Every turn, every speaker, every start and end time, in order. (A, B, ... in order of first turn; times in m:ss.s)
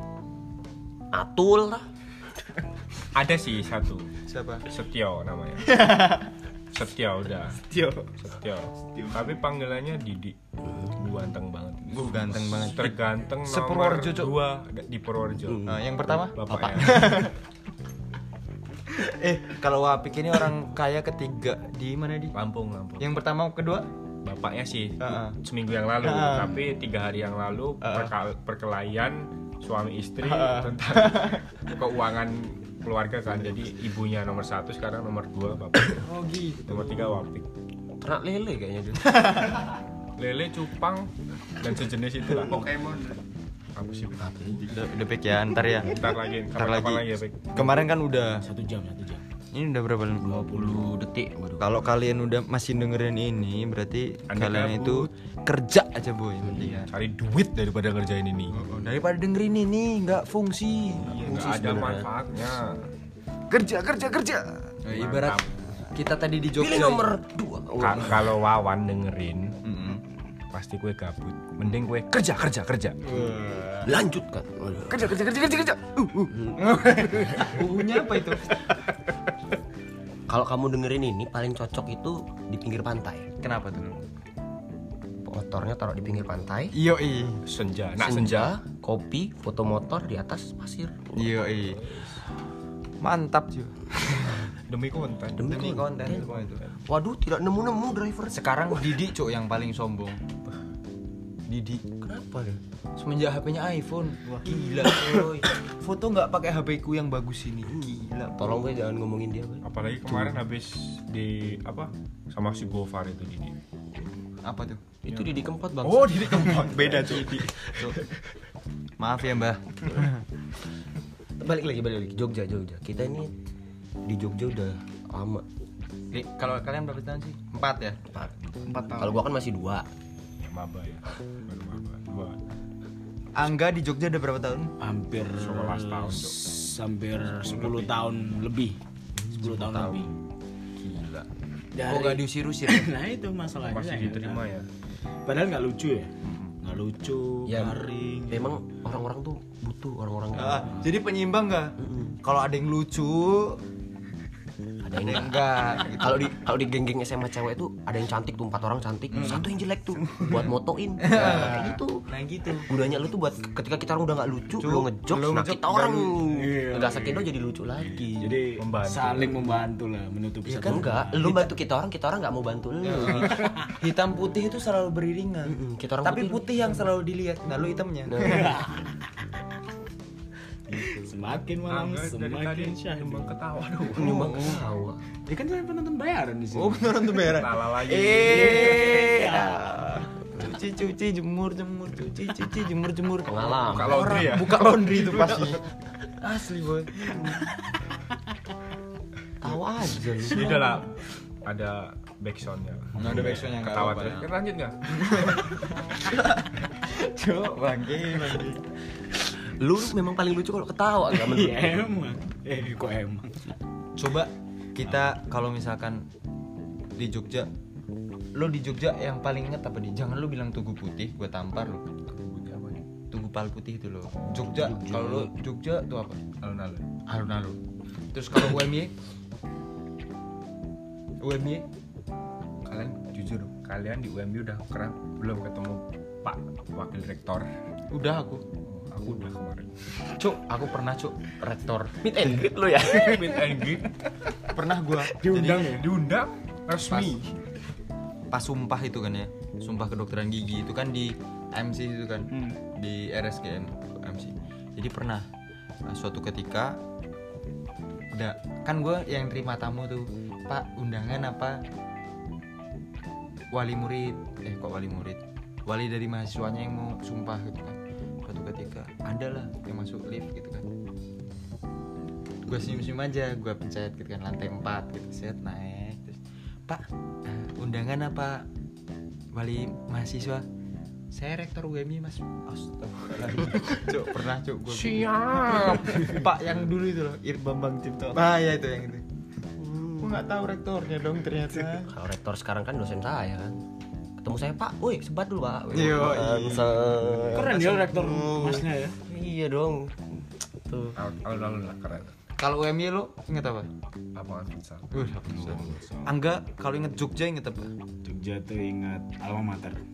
0:01.1-0:01.9 A
0:03.1-0:04.1 B
0:04.3-0:04.7 C
0:04.7-0:06.2 B
0:06.7-0:07.6 B
0:07.7-0:08.0 D
0:08.2-0:10.3 B
0:10.6-0:11.0 A
0:10.8-0:15.7 B
0:11.9-0:14.4 C
0:15.5-0:15.8 A
0:15.6-0:17.3 C
0:16.3-0:17.2 B
0:16.5-0:17.0 A
0:19.0-0:22.3 C
0:22.3-0:23.2 B
0:23.0-0:23.8 C
0:24.2-0:36.0 B
0:25.0-0:25.4 C
0:26.0-0:26.6 C
0:27.8-0:28.1 C
0:30.2-0:31.4 C
0:35.9-0:37.2 C
0:36.6-0:37.5 B
0:38.0-0:39.5 A
0:40.2-0:42.8 B
0:42.4-0:43.2 D
0:43.8-0:44.6 B
0:44.2-0:44.6 A
0:44.6-0:48.4 C
0:45.8-0:47.8 B
0:48.4-0:49.2 E
0:49.5-0:50.2 C
0:50.2-0:51.8 A
0:50.2-0:50.9 E
0:51.6-0:56.9 C
0:54.3-0:55.1 B
0:56.4-0:56.8 A
0:56.9-0:58.6 B
0:58.5-1:01.3 C
1:01.0-1:02.1 A
1:01.1-1:02.8 B
1:03.5-1:07.0 C
1:04.9-1:05.7 B
1:06.6-1:08.2 A
1:07.8-1:09.6 B
1:07.9-1:08.2 C
1:09.6-1:10.0 C
1:10.5-1:13.0 B
1:13.0-1:13.9 C
1:13.8-1:15.2 A
1:14.9-1:18.6 C
1:16.3-1:17.6 A
1:20.3-1:23.3 A
1:23.4-1:24.0 C
1:25.2-1:26.7 A
1:26.7-1:27.4 C
1:27.4-1:28.6 B
1:28.0-1:31.1 A
1:31.1-1:31.8 C
1:31.2-1:32.2 B
1:33.0-1:34.4 C
1:34.7-1:36.7 B
1:35.4-1:36.3 A
1:35.5-1:36.6 C
1:36.8-1:38.8 A
1:38.3-1:40.2 C
1:41.5-1:41.8 C
1:42.0-1:42.6 A
1:43.0-1:48.7 C
1:44.4-1:45.5 A
1:47.7-1:50.4 A
1:49.6-1:53.5 B
1:54.4-1:54.8 C
1:55.0-1:57.4 A
1:55.1-1:58.1 B
1:56.5-1:58.0 C
1:56.8-1:57.4 D
1:59.0-2:00.2 C
2:01.4-2:03.3 A
2:04.0-2:05.4 A
2:06.1-2:08.0 C
2:08.2-2:08.5 B
2:08.6-2:09.2 D
2:08.9-2:09.8 A
2:10.4-2:12.4 B
2:13.4-2:14.7 C
2:14.8-2:18.8 E
2:15.3-2:16.3 B
2:17.4-2:17.9 B
2:19.3-2:20.1 E
2:19.4-2:20.1 C
2:20.8-2:21.3 C
2:21.7-2:24.4 E
2:21.8-2:22.9 C
2:23.6-2:24.7 B
2:25.2-2:28.6 E
2:27.4-2:30.8 A
2:30.3-2:33.6 C
2:31.8-2:32.2 A
2:34.8-2:42.0 A
2:35.0-2:36.3 C
2:39.2-2:39.5 E
2:40.0-2:40.4 E
2:41.0-2:42.6 C
2:42.3-2:42.6 E
2:42.7-2:48.2 A
2:44.6-2:46.2 C
2:46.2-2:47.3 E
2:47.8-2:51.5 E
2:48.2-2:49.4 B
2:50.4-2:51.4 C
2:50.6-2:53.3 A
2:52.8-2:58.4 C
2:53.3-2:53.7 E
2:55.4-2:56.4 A
2:58.1-2:58.5 A
2:58.2-2:59.0 E
3:00.7-3:03.4 E
3:01.6-3:04.2 B
3:03.9-3:05.0 A
3:04.0-3:04.6 C
3:05.2-3:07.0 E
3:06.5-3:17.4 C
3:07.3-3:08.6 B
3:08.2-3:10.1 E
3:13.2-3:14.2 A
3:13.7-3:15.6 B
3:19.4-3:20.8 A
3:19.4-3:20.6 C
3:20.2-3:20.9 B
3:21.4-3:25.4 B
3:23.0-3:24.3 C
3:23.0-3:23.4 E
3:24.9-3:28.6 C
3:29.5-3:31.9 A
3:31.1-3:33.5 E
3:34.0-3:36.0 C
3:37.0-3:37.5 C
3:38.3-3:41.8 C
3:42.1-3:42.9 B
3:43.1-3:46.2 C
3:44.5-3:45.3 E
3:46.4-3:46.9 B
3:47.1-3:47.6 C
3:48.1-3:48.9 C
3:51.2-3:51.6 C
3:52.6-3:57.5 B
3:57.9-3:58.4 C
3:58.6-3:59.7 B
4:00.1-4:02.0 C
4:02.0-4:03.3 A
4:02.8-4:03.9 B
4:04.5-4:05.8 C
4:05.1-4:05.9 E
4:05.7-4:07.3 B
4:06.9-4:07.2 C
4:08.3-4:15.2 C
4:12.3-4:12.6 D
4:15.9-4:16.8 C
4:18.1-4:21.6 C
4:23.5-4:30.7 C
4:32.4-4:38.4 C
4:39.3-4:40.4 C
4:41.1-4:47.4 C
4:44.7-4:46.2 B
4:47.4-4:48.2 D
4:48.1-4:49.0 C
4:49.6-4:50.2 A
4:50.0-4:51.9 C
4:51.9-4:53.6 A
4:54.2-4:57.5 A
4:55.7-4:58.6 C
4:57.3-4:59.0 E
4:59.0-5:00.9 A
5:01.0-5:02.1 B
5:02.4-5:03.7 C
5:04.1-5:05.5 B
5:04.9-5:07.7 C
5:05.3-5:06.1 E
5:08.0-5:09.8 E